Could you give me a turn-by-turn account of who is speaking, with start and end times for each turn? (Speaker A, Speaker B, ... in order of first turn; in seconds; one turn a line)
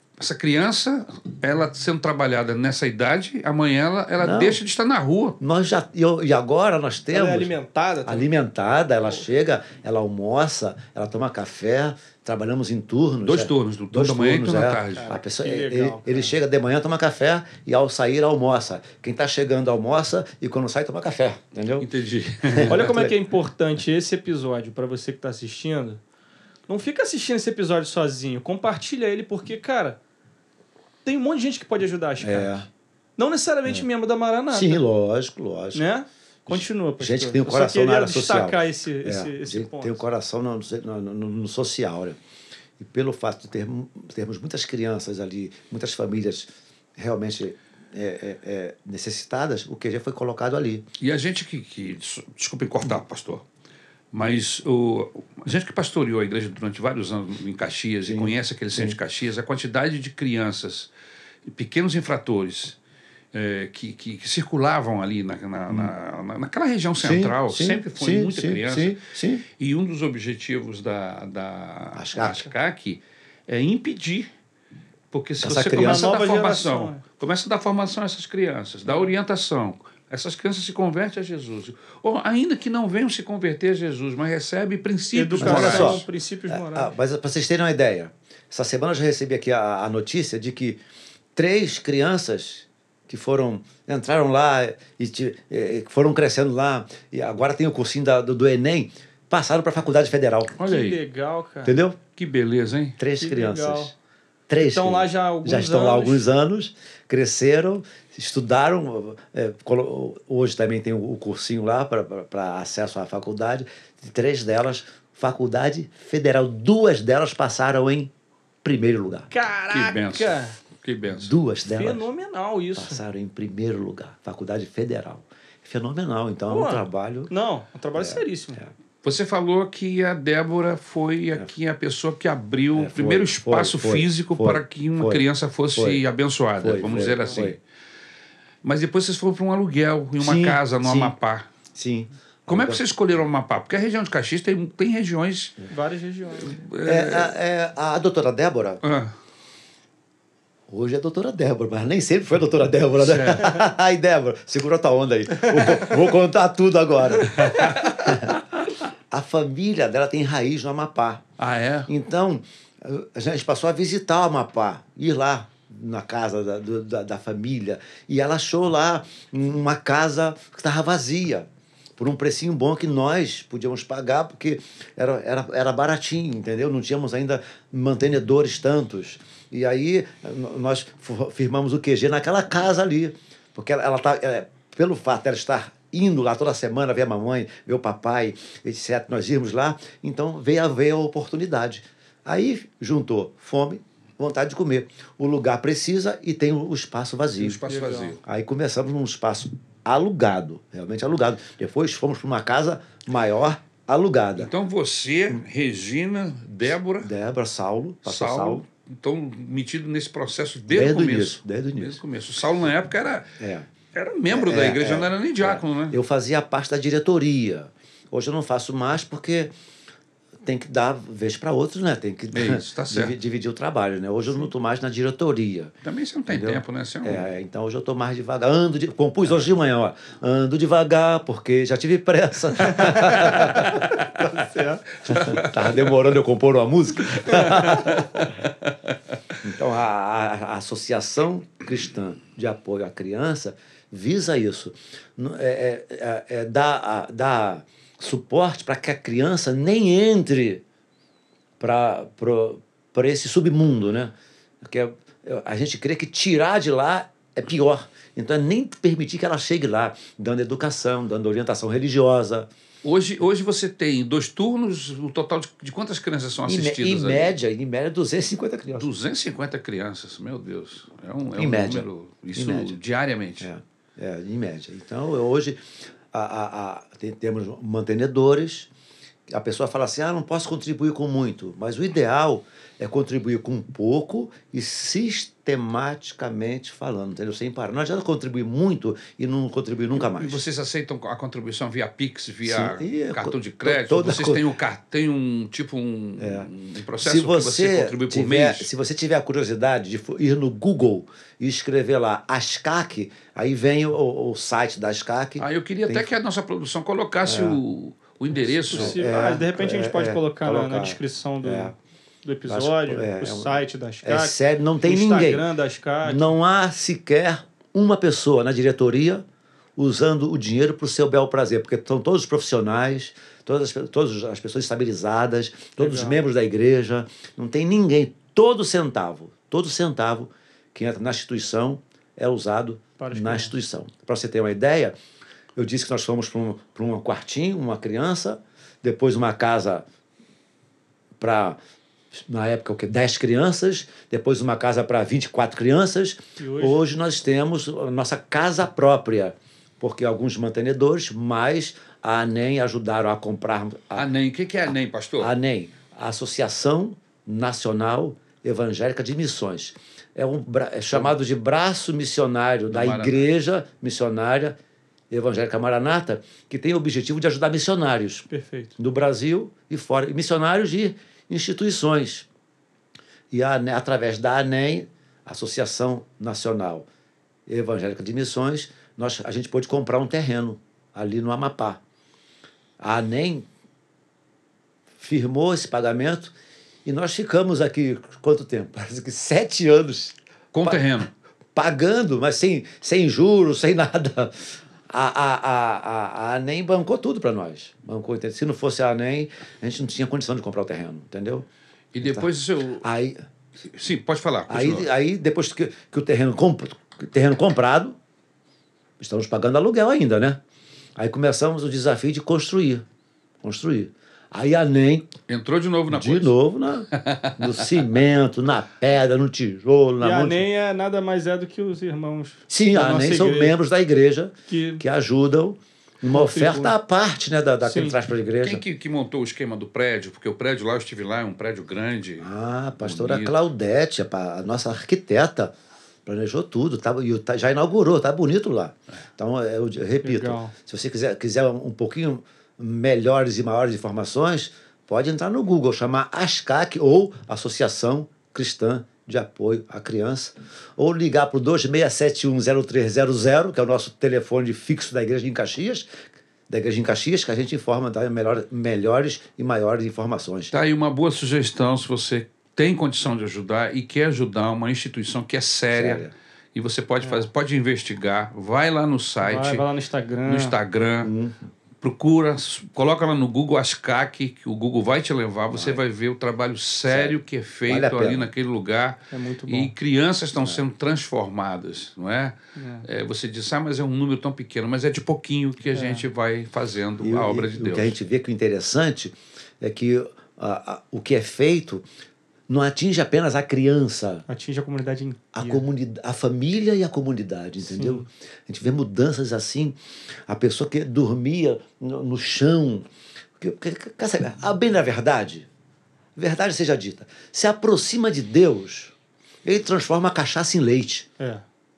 Speaker A: 0.2-5.4
Speaker B: 4.2-4.6
Speaker B: 5.4-7.5
Speaker C: 7.1-8.3
Speaker B: 8.1-21.9
Speaker A: 13.2-15.1
Speaker C: 15.0-16.4
Speaker A: 21.8-23.0
Speaker B: 22.5-23.1
Speaker C: 22.7-26.0
Speaker C: 26.7-30.0
Speaker C: 31.1-32.6
Speaker B: 32.2-32.7
Speaker C: 33.2-34.8
Speaker B: 34.5-35.9
Speaker C: 35.8-40.0
Speaker B: 36.5-42.2
Speaker B: 42.8-50.9
Speaker A: 51.0-53.4
Speaker A: 54.1-60.9
Speaker B: 58.0-59.0
Speaker A: 61.5-62.8
Speaker A: 63.3-69.0
Speaker B: 67.0-69.4
Speaker A: 69.6-74.3
Speaker B: 71.9-72.5
Speaker A: 75.1-86.0
Speaker B: 75.4-76.1
Speaker C: 75.8-77.0
Speaker C: 85.1-86.9
Speaker B: 85.4-90.8
Speaker B: 91.4-100.6
Speaker A: 100.6-101.0
Speaker C: 100.7-101.8
Speaker B: 101.6-102.0
Speaker A: 102.2-103.0
Speaker B: 103.0-103.9
Speaker C: 103.2-103.9
Speaker B: 104.5-118.1
Speaker C: 104.6-106.3
Speaker B: 118.6-119.3
Speaker C: 119.3-120.6
Speaker A: 119.7-121.3
Speaker B: 121.1-122.0
Speaker C: 121.7-123.0
Speaker B: 122.8-127.3
Speaker C: 126.5-128.6
Speaker B: 128.0-128.7
Speaker A: 129.0-137.6
Speaker B: 132.8-135.2
Speaker B: 135.8-136.0
Speaker B: 136.6-137.6
Speaker A: 138.6-141.5
Speaker B: 140.2-141.1
Speaker B: 141.7-142.8
Speaker A: 142.5-145.6
Speaker C: 145.7-146.6
Speaker A: 146.4-147.3
Speaker B: 146.8-148.8
Speaker A: 148.8-149.1
Speaker B: 150.7-158.4
Speaker A: 153.0-153.6
Speaker B: 159.1-161.2
Speaker A: 161.4-161.9
Speaker B: 161.9-197.6
Speaker A: 197.4-198.2
Speaker C: 197.7-198.2
Speaker B: 198.2-204.5
Speaker A: 204.4-207.1
Speaker B: 207.0-208.7
Speaker A: 208.1-213.3
Speaker B: 210.7-212.0
Speaker B: 213.4-213.7
Speaker A: 213.9-216.0
Speaker B: 214.3-219.5
Speaker B: 220.4-225.7
Speaker A: 222.3-223.2
Speaker A: 225.8-227.3
Speaker B: 226.3-233.9
Speaker C: 232.7-234.9
Speaker A: 235.1-235.9
Speaker B: 235.1-238.3
Speaker A: 237.2-238.7
Speaker B: 239.4-250.6
Speaker B: 251.6-262.5
Speaker A: 262.8-267.3
Speaker B: 266.5-268.9
Speaker A: 268.8-273.5
Speaker B: 271.4-272.8
Speaker B: 273.4-278.7
Speaker B: 279.3-290.4
Speaker A: 289.9-298.7
Speaker B: 292.4-294.4
Speaker B: 296.2-296.5
Speaker B: 297.0-306.1
Speaker A: 305.4-309.0
Speaker B: 307.2-307.6
Speaker B: 308.7-311.7
Speaker C: 308.7-316.3
Speaker B: 312.5-315.4
Speaker B: 316.0-319.2
Speaker B: 319.8-334.9
Speaker C: 325.8-326.2
Speaker C: 333.0-333.5
Speaker B: 335.6-339.8
Speaker B: 341.2-341.6
Speaker B: 342.2-354.1
Speaker C: 346.4-346.8
Speaker A: 353.9-355.3
Speaker B: 355.2-364.6
Speaker A: 362.7-363.3
Speaker B: 365.1-368.3
Speaker C: 368.3-368.8
Speaker B: 368.8-372.3
Speaker B: 373.3-376.9
Speaker B: 377.5-381.8
Speaker B: 382.8-383.5
Speaker B: 385.0-386.3
Speaker B: 386.9-391.1
Speaker A: 390.5-391.1
Speaker B: 391.6-401.5
Speaker A: 401.9-402.9
Speaker B: 402.0-402.3
Speaker B: 402.8-403.2
Speaker A: 403.7-404.9
Speaker B: 404.5-408.0
Speaker B: 409.0-410.4
Speaker B: 411.0-412.8
Speaker B: 413.4-415.1
Speaker A: 415.3-416.4
Speaker B: 415.9-420.5
Speaker A: 416.9-417.8
Speaker C: 420.0-423.6
Speaker B: 422.5-428.6
Speaker C: 424.5-424.8
Speaker C: 426.1-426.7
Speaker C: 427.6-428.0
Speaker A: 428.4-432.3
Speaker B: 432.2-435.5
Speaker A: 432.8-433.4
Speaker B: 436.1-455.9
Speaker C: 440.0-440.5
Speaker B: 456.5-460.5
Speaker A: 460.5-466.0
Speaker B: 465.7-466.1
Speaker A: 466.6-469.7
Speaker C: 467.0-467.3
Speaker C: 469.2-470.6
Speaker A: 470.3-471.1
Speaker B: 471.0-471.5
Speaker A: 471.8-488.0
Speaker B: 475.5-475.8
Speaker B: 476.9-478.3
Speaker C: 479.1-479.7
Speaker C: 482.6-482.9
Speaker C: 485.7-486.1
Speaker B: 487.0-491.8
Speaker B: 492.5-494.3
Speaker C: 494.3-495.6
Speaker B: 495.3-499.8
Speaker C: 497.8-498.1
Speaker B: 500.3-502.9
Speaker B: 503.4-505.5
Speaker B: 506.2-508.9
Speaker B: 509.4-511.1
Speaker C: 511.2-511.4